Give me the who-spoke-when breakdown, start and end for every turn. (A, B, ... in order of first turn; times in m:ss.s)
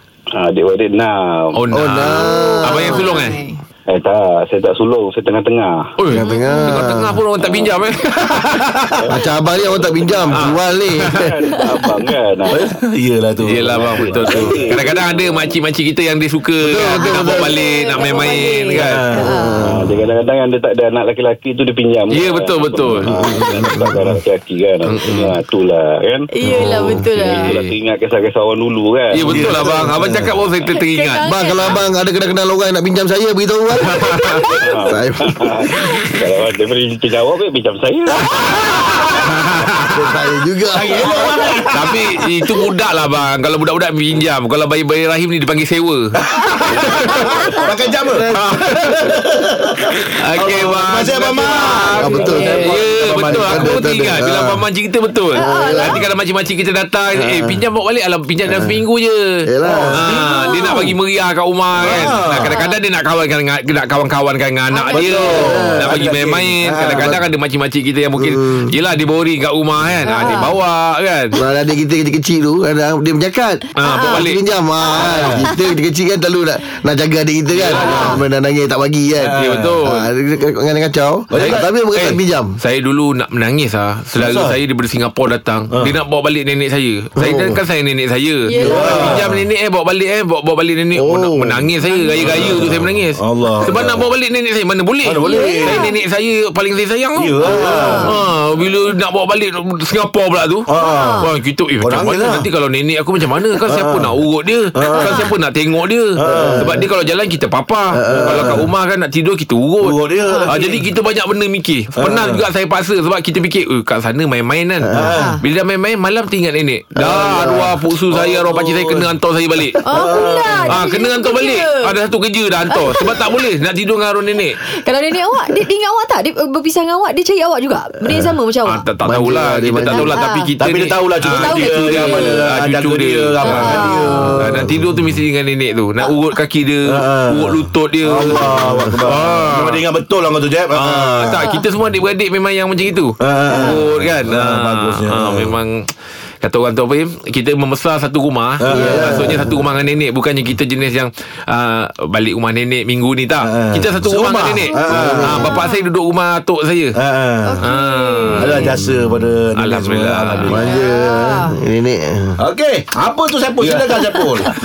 0:00.3-0:01.6 A
0:01.6-0:03.4 B
0:01.7-0:03.0 C
0:02.1-0:03.6 D
0:03.9-0:05.9 A
0:06.0-0:08.7 B
0:06.1-0:07.2 C
0:06.2-0:06.9 D
0:08.3-0:09.0 E
0:09.1-0:11.3 C
0:09.7-0:10.5 A
0:10.3-0:11.3 B
0:11.0-0:12.8 A
0:11.6-0:11.8 D
0:12.5-0:14.6 E
0:13.4-0:19.0 B
0:13.6-0:15.4 A
0:16.6-0:17.6 C
0:17.3-0:19.6 D
0:18.8-0:19.3 E
0:19.1-0:20.0 C
0:19.6-0:26.3 A
0:22.1-0:23.1 B
0:23.0-0:24.2 C
0:24.8-0:25.4 B
0:26.3-0:27.5 D
0:26.5-0:26.9 C
0:26.8-0:27.7 B
0:27.0-0:29.5 A
0:29.1-0:31.3 B
0:29.2-0:30.3 E
0:30.0-0:30.3 C
0:30.7-0:31.8 D
0:31.2-0:34.2 C
0:33.9-0:34.6 B
0:34.1-0:34.6 D
0:34.6-0:38.7 A
0:34.9-0:35.5 C
0:38.6-0:39.1 E
0:39.2-0:39.9 B
0:39.9-0:41.3 C
0:40.7-0:42.0 E
0:41.7-0:46.1 B
0:46.2-0:53.8 E
0:46.8-0:47.4 B
0:48.3-0:49.1 B
0:50.2-0:59.4 B
0:51.9-0:52.6 C
0:52.0-0:52.7 D
0:53.2-0:54.6 C
0:55.4-0:56.0 D
0:55.4-0:56.0 C
0:57.2-0:57.6 C
0:58.5-0:58.8 C
0:59.4-1:00.1 C
0:59.6-1:00.3 E
1:00.0-1:11.3 B
1:00.1-1:00.8 D
1:01.8-1:02.5 E
1:04.7-1:05.4 D
1:04.9-1:07.1 E
1:05.3-1:05.9 C
1:06.9-1:07.2 C
1:08.2-1:08.7 C
1:10.0-1:10.5 D
1:11.3-1:22.6 C
1:13.8-1:14.4 B
1:13.8-1:14.2 D
1:14.9-1:15.4 E
1:17.5-1:18.1 B
1:17.7-1:18.1 E
1:17.8-1:18.2 D
1:19.2-1:19.8 E
1:19.4-1:20.0 B
1:21.3-1:22.1 E
1:21.4-1:40.7 B
1:24.2-1:24.6 E
1:27.2-1:27.6 C
1:28.5-1:29.2 D
1:28.6-1:29.4 E
1:30.9-1:31.7 C
1:31.8-1:32.2 D
1:32.2-1:34.1 E
1:35.0-1:35.8 E
1:35.2-1:35.9 D
1:37.2-1:38.1 E
1:37.4-1:38.1 D
1:40.7-1:41.2 E
1:40.8-1:41.3 D
1:41.2-1:59.8 B
1:41.8-1:42.5 E
1:43.6-1:44.1 E
1:44.7-1:45.3 E
1:44.9-1:45.3 D
1:46.2-1:46.8 E
1:46.3-1:46.8 C
1:47.9-1:48.6 C
1:48.1-1:48.6 E
1:49.8-1:50.8 E
1:50.2-1:50.5 D
1:52.0-1:52.4 E
1:54.9-1:55.1 C
1:54.9-1:55.3 E
1:55.1-1:55.4 D
1:57.0-1:57.7 C
1:58.1-1:59.1 E
1:59.8-2:00.8 E
1:59.8-2:01.9 D
2:00.7-2:04.6 B
2:02.7-2:03.2 D
2:04.6-2:08.8 D
2:08.6-2:19.8 B
2:09.0-2:10.2 C
2:09.9-2:10.5 D
2:10.6-2:14.8 E
2:11.3-2:12.3 D
2:13.4-2:14.4 D
2:16.9-2:21.4 E
2:20.7-2:25.9 B
2:23.2-2:25.5 E
2:23.5-2:23.8 D
2:26.4-2:37.0 B
2:28.6-2:29.6 E
2:28.7-2:29.5 C
2:33.4-2:35.6 E
2:34.9-2:35.6 C
2:35.4-2:35.8 D
2:37.0-2:37.6 E
2:37.4-2:38.7 D
2:37.6-2:38.8 B
2:38.3-2:40.6 E
2:39.6-2:40.6 B
2:40.5-2:42.4 C
2:40.6-2:41.6 D
2:42.4-2:44.5 E